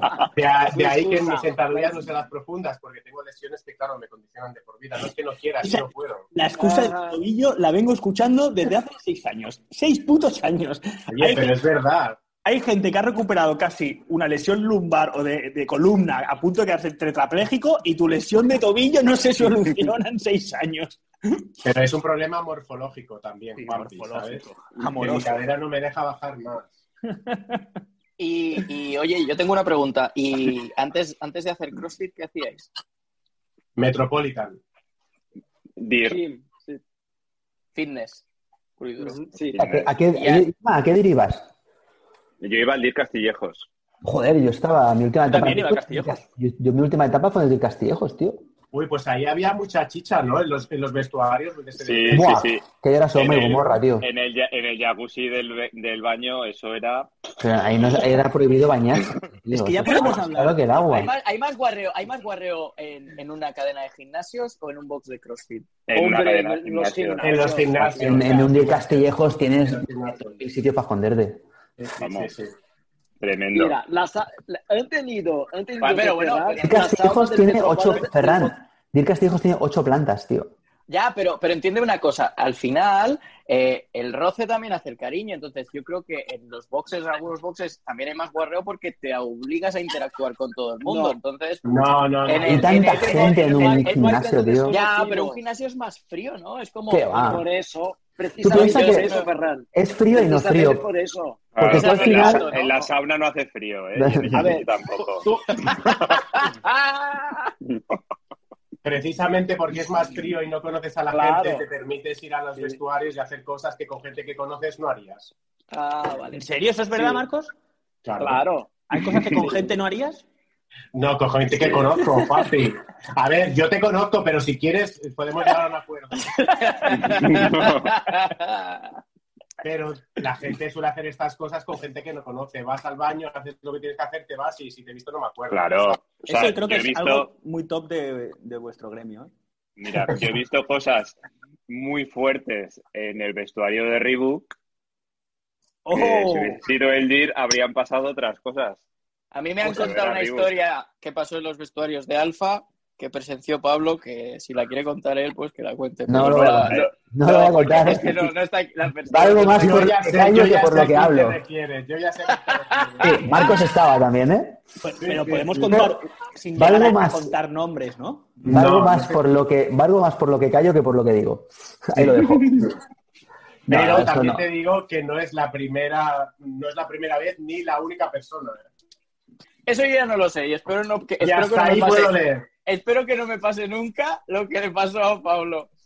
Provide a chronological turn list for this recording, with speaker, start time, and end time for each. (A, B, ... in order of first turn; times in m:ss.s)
0:00.3-0:06.3 A
0:00.7-0:02.0 B
0:05.6-0:11.6 C
0:06.6-0:07.2 B
0:11.1-0:12.2 A
0:12.4-0:21.4 C
0:21.6-0:26.8 A
0:23.6-0:25.4 C
0:27.1-0:27.8 C
0:28.2-0:32.7 D
0:33.8-0:34.6 A
0:35.8-0:36.2 E
0:36.0-0:36.8 B
0:37.7-0:38.2 D
0:38.8-0:39.2 D
0:39.0-0:39.6 B
0:39.5-0:39.9 E
0:39.6-0:41.5 F
0:40.1-0:40.5 D
0:42.4-0:43.7 E
0:44.0-0:48.4 F
0:45.3-0:46.2 C
0:48.7-0:52.5 A
0:51.8-0:57.1 E
0:52.1-0:54.1 F
0:57.4-1:01.1 F
0:59.5-1:01.1 C
1:00.9-1:05.7 D
1:05.9-1:07.6 E
1:05.9-1:08.3 B
1:07.2-1:09.0 A
1:08.0-1:09.8 F
1:09.6-1:10.4 A
1:10.4-1:11.4 F
1:11.8-1:12.5 A
1:12.0-1:12.3 E
1:13.2-1:13.8 E
1:13.5-1:18.6 B
1:15.8-1:16.7 D
1:16.6-1:20.5 F
1:20.9-1:31.7 D
1:31.6-1:32.8 A
1:32.2-1:37.4 D
1:32.4-1:34.8 F
1:32.8-1:35.4 B
1:36.9-1:37.4 F
1:37.2-1:41.5 B
1:38.4-1:39.1 F
1:38.5-1:39.3 D
1:39.7-1:40.8 F
1:41.5-1:45.2 E
1:41.6-1:42.4 F
1:41.7-1:42.8 D
1:44.0-1:44.6 F
1:44.3-1:45.5 B
1:45.6-1:47.4 D
1:48.8-1:55.3 A
1:51.1-1:51.6 B
1:55.7-1:56.4 D
1:56.3-1:57.5 C
1:57.0-1:57.2 B
1:58.0-1:58.4 A
1:58.2-1:58.7 B
1:58.9-2:00.2 C
2:00.9-2:06.3 A
2:06.4-2:09.0 D
2:07.1-2:07.5 A
2:07.1-2:07.9 E
2:09.6-2:16.0 A
2:15.5-2:17.3 E
2:16.3-2:19.3 C
2:19.8-2:24.5 E
2:25.8-2:26.6 C
2:25.9-2:28.8 E
2:29.3-2:39.9 D
2:29.6-2:30.5 E
2:36.1-2:38.3 F
2:39.1-2:41.4 F
2:39.6-2:43.4 A
2:43.0-2:44.6 F
2:44.8-2:48.4 C
2:45.0-2:45.9 A
2:46.6-2:47.3 F
2:48.4-2:49.2 A
2:48.4-2:52.7 F
2:52.0-2:52.7 A
2:53.7-2:54.4 F
2:53.7-2:58.6 A
2:59.6-3:05.7 D
3:01.2-3:02.5 A